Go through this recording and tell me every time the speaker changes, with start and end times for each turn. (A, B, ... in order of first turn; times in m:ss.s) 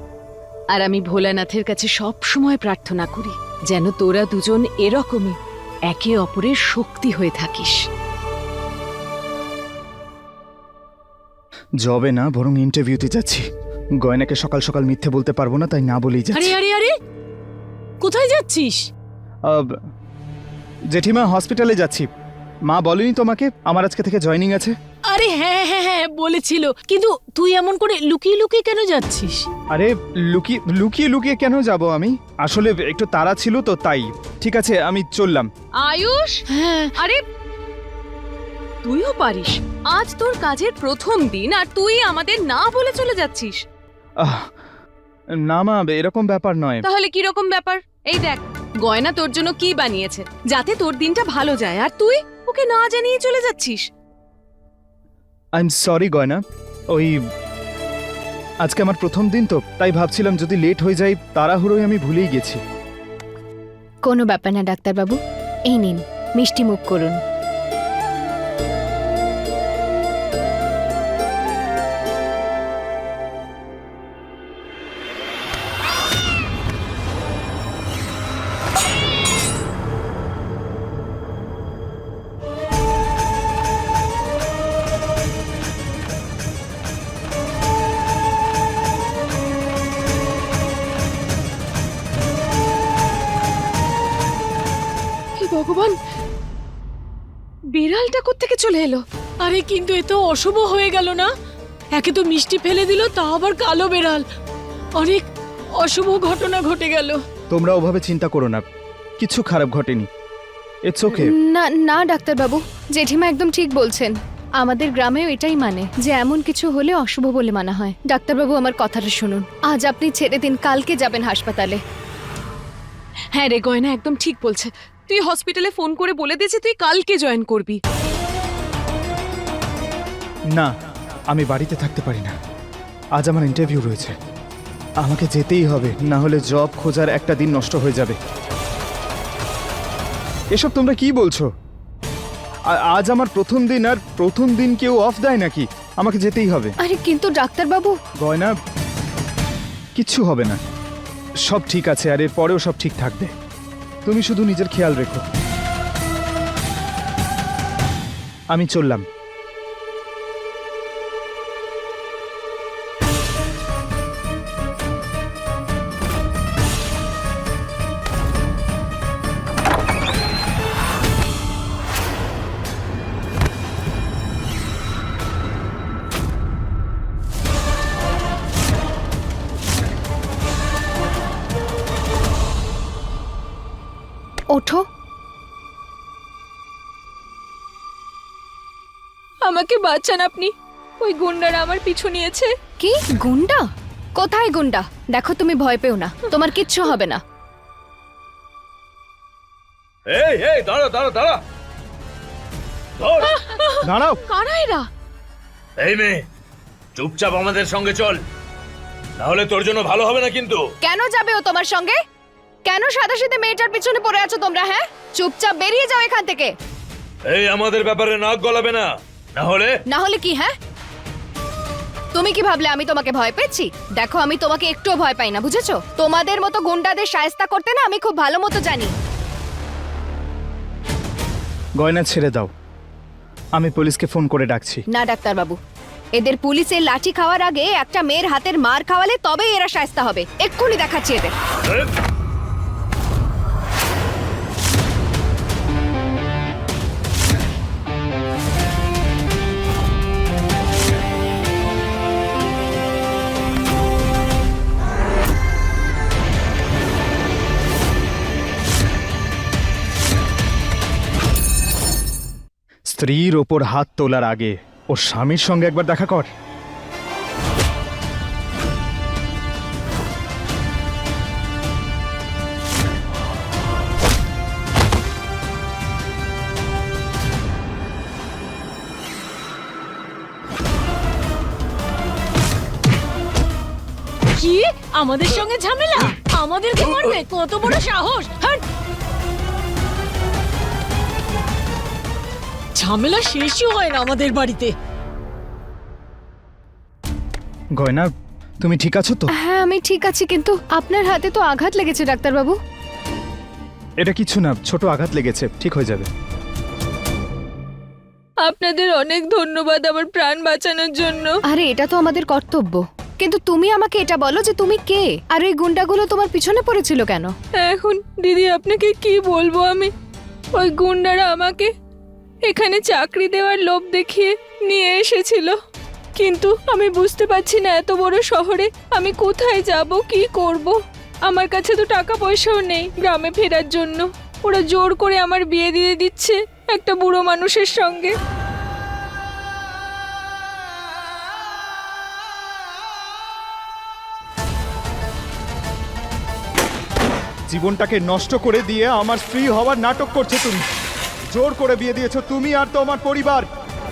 0:00.7-0:05.4 A
0:05.9-0:07.8 A
0:11.8-0:13.4 B
0:14.0-0:16.6 B
0:16.3-0:16.9 C
0:18.0-0:18.8 C
0:19.5-0:19.8 B
0:20.9-0:22.1 B
0:22.7-0:24.8 B
0:25.1-0:29.5 C
0:29.7-0:35.5 B
0:35.8-0:37.2 A
0:38.8-0:43.6 A
0:44.2-0:44.5 B
0:45.5-0:46.8 B
0:46.8-0:53.8 A
0:55.6-0:56.4 B
0:58.6-1:02.6 B
1:04.1-1:07.2 D
1:35.4-1:36.0 A
1:37.7-1:39.0 A
1:39.4-1:41.3 C
1:42.0-1:44.2 C
1:45.0-1:45.3 C
1:45.8-1:47.2 C
1:47.5-1:48.6 B
1:49.2-1:50.1 B
1:50.9-1:51.3 B
1:51.1-2:01.8 D
2:03.3-2:07.8 A
2:11.3-2:12.4 B
2:13.2-2:14.1 B
2:15.0-2:18.2 B
2:20.5-2:21.5 B
2:22.7-2:26.8 B
2:26.8-2:28.0 D
2:28.2-2:28.6 B
2:30.0-2:30.6 B
2:31.5-2:33.3 B
2:34.0-2:35.2 B
2:38.5-2:39.1 B
3:04.5-3:04.8 D
3:09.4-3:12.5 E
3:12.8-3:13.6 D
3:14.2-3:17.2 D
3:20.1-3:21.4 F
3:23.0-3:23.4 F
3:23.4-3:24.9 A
3:23.8-3:24.2 B
3:25.8-3:26.2 F
3:27.0-3:28.2 F
3:29.2-3:30.6 F
3:30.8-3:32.0 D
3:32.7-3:36.5 D
3:37.3-3:39.7 F
3:39.9-3:40.5 D
3:42.2-3:48.9 D
3:51.8-3:52.5 B
3:53.6-3:54.8 B
3:54.9-3:55.6 D
3:56.2-4:01.3 D
4:22.9-4:26.3 B
4:44.4-4:48.6 C
4:52.8-4:54.7 C
4:57.8-4:58.1 B
4:58.6-4:59.3 B
4:59.4-5:02.6 D
5:04.0-5:06.1 B
5:08.4-5:11.3 E
5:11.5-5:17.3 D
5:17.6-5:19.9 E
5:20.6-5:21.7 E
5:22.4-5:25.6 E
5:26.2-5:38.1 E
5:47.5-5:50.7 B
5:51.3-5:53.5 B